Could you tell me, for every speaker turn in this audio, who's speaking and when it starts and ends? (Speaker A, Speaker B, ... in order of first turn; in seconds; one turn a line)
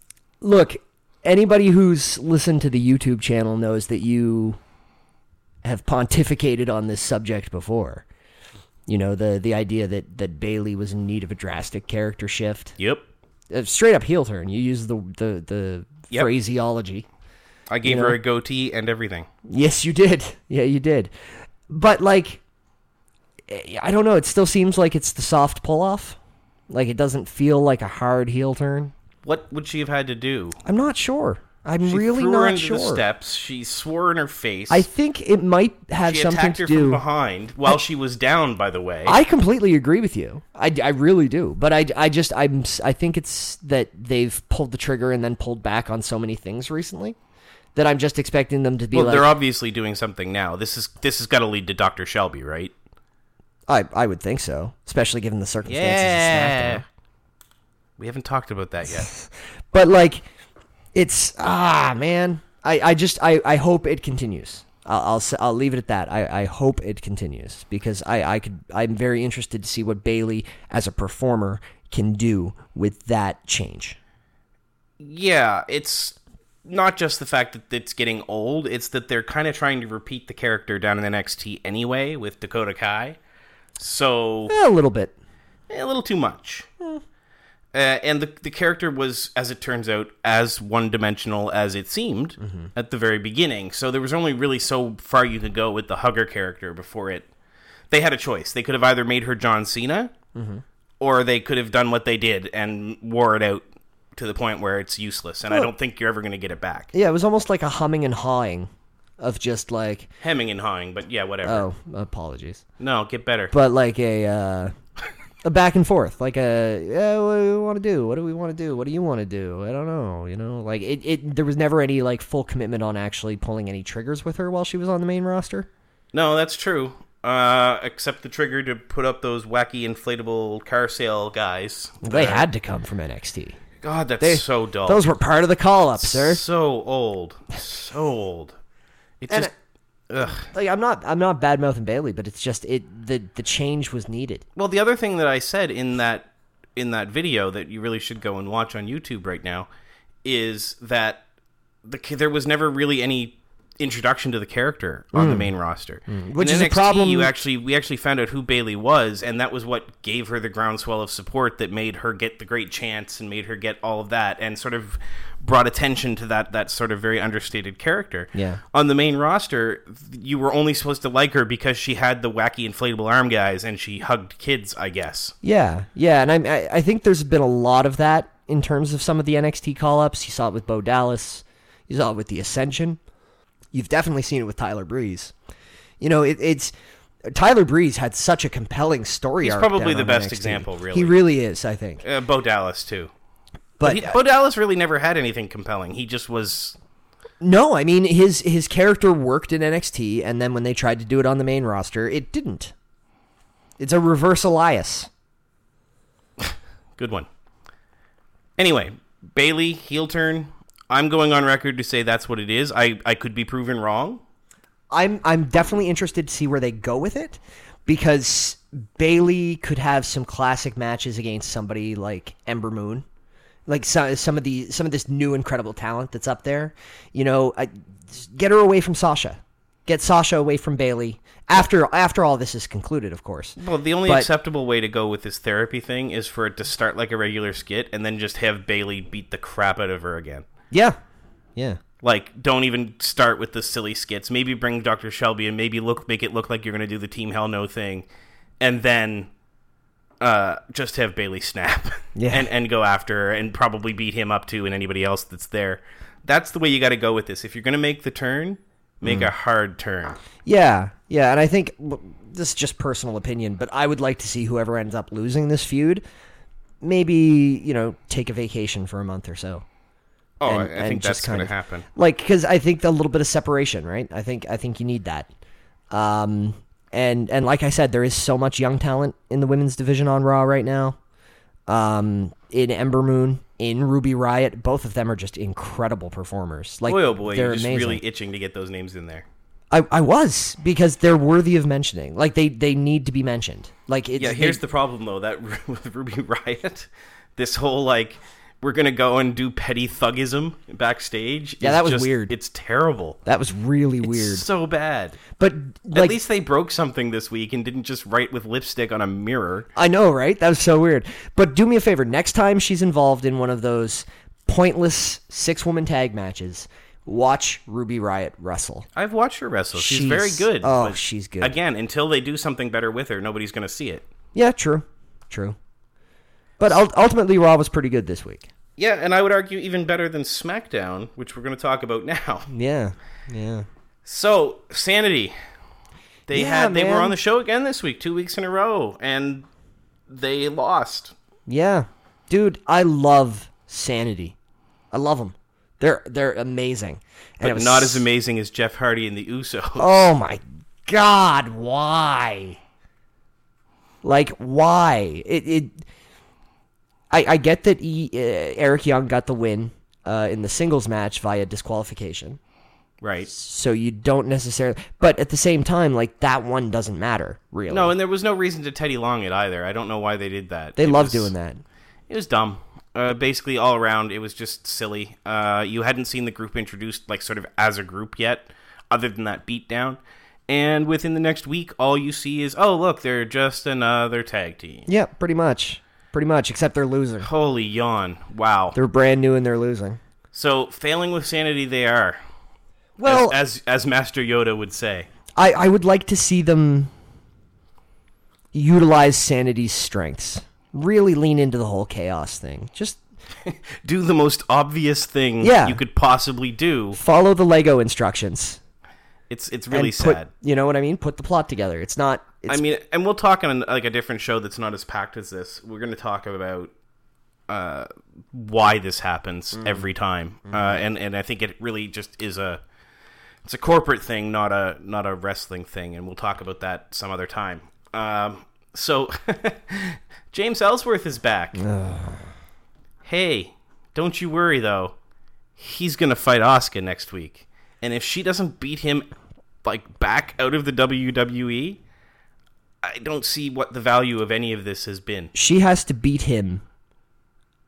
Speaker A: 0.4-4.6
Speaker A: 5.6-8.1
Speaker A: 8.9-12.8
Speaker B: 12.8-13.1
Speaker A: 13.5-17.1
Speaker B: 17.7-19.3
Speaker A: 17.8-18.1
Speaker A: 19.5-21.1
Speaker A: 21.7-22.4
Speaker A: 23.5-26.2
Speaker A: 26.7-28.9
Speaker B: 29.2-30.6
Speaker A: 30.6-33.0
Speaker B: 31.8-34.9
Speaker A: 34.7-37.0
Speaker B: 36.0-39.2
Speaker A: 39.1-47.2
Speaker A: 47.8-49.3
Speaker B: 48.9-52.7
Speaker A: 53.7-56.9
Speaker B: 55.6-56.8
Speaker B: 58.0-59.1
Speaker A: 58.9-60.2
Speaker A: 60.9-74.0
Speaker B: 75.0-83.2
Speaker B: 83.8-84.5
Speaker A: 84.5-85.1
Speaker B: 85.7-86.7
Speaker B: 87.7-97.3
Speaker A: 92.4-92.7
Speaker B: 97.9-100.1
Speaker A: 100.3-100.6
Speaker B: 101.0-103.6
Speaker B: 104.2-106.9
Speaker A: 106.9-110.1
Speaker B: 110.2-111.7
Speaker A: 111.5-112.6
Speaker B: 112.8-113.5
Speaker A: 113.5-114.7
Speaker A: 115.4-125.7
Speaker B: 126.1-132.5
Speaker A: 132.0-133.6
Speaker B: 133.8-135.0
Speaker A: 134.2-136.4
Speaker B: 136.0-138.6
Speaker B: 139.2-139.5
Speaker B: 140.1-140.5
Speaker A: 140.4-144.4
Speaker B: 144.6-149.7
Speaker B: 150.2-151.2
Speaker B: 151.8-175.3
Speaker A: 155.1-155.5
Speaker A: 156.1-157.3
Speaker A: 168.3-168.6
Speaker A: 175.4-183.0
Speaker A: 183.7-185.3
Speaker A: 186.0-186.7
Speaker A: 187.3-192.0
Speaker B: 189.4-191.2
Speaker B: 192.0-193.1
Speaker A: 193.8-194.2
Speaker B: 193.8-196.8
Speaker A: 197.4-202.7
Speaker A: 203.8-205.1
Speaker B: 206.4-207.3
Speaker B: 208.6-214.2
Speaker A: 214.9-223.1
Speaker A: 223.7-234.3
Speaker B: 233.6-240.5
Speaker A: 240.7-241.0
Speaker B: 242.0-248.1
Speaker B: 248.6-249.3
Speaker B: 250.2-260.2
Speaker A: 252.1-252.5
Speaker A: 259.0-259.3
Speaker A: 260.4-266.0
Speaker A: 266.8-269.6
Speaker B: 270.4-271.9
Speaker A: 270.5-275.3
Speaker A: 275.9-281.0
Speaker A: 281.7-288.0
Speaker B: 286.9-289.3
Speaker A: 289.7-294.6
Speaker B: 294.2-303.2
Speaker A: 301.6-302.4
Speaker A: 303.3-304.5
Speaker B: 304.0-305.2
Speaker A: 305.4-306.2
Speaker B: 305.9-309.7
Speaker A: 309.8-318.9
Speaker B: 318.9-324.1
Speaker A: 319.8-321.6
Speaker A: 324.4-325.6
Speaker A: 326.6-328.5
Speaker B: 328.8-332.5
Speaker A: 332.5-333.6
Speaker B: 334.1-335.4
Speaker B: 336.3-339.5
Speaker A: 336.3-337.1
Speaker B: 340.1-341.1
Speaker A: 341.5-344.4
Speaker A: 344.9-348.0
Speaker B: 347.4-350.0
Speaker A: 349.8-352.6
Speaker A: 354.0-355.8
Speaker A: 357.1-362.4
Speaker B: 363.0-363.3
Speaker A: 363.3-367.9
Speaker B: 367.7-371.3
Speaker A: 370.8-371.6
Speaker B: 372.1-384.9
Speaker A: 384.9-387.3
Speaker B: 387.2-388.8
Speaker A: 388.8-390.0
Speaker B: 390.3-392.2
Speaker A: 393.0-393.4
Speaker B: 393.1-395.1
Speaker A: 395.4-396.9
Speaker A: 398.5-403.0
Speaker B: 403.4-407.0
Speaker A: 405.4-405.8
Speaker A: 407.0-408.6
Speaker B: 409.3-410.3
Speaker A: 409.7-412.6
Speaker B: 412.5-416.7
Speaker B: 417.5-422.6
Speaker A: 420.5-420.8
Speaker B: 423.4-431.6
Speaker A: 431.6-432.3
Speaker B: 433.0-434.9
Speaker B: 435.6-439.1
Speaker B: 439.6-441.8
Speaker B: 442.8-445.3
Speaker A: 445.3-446.6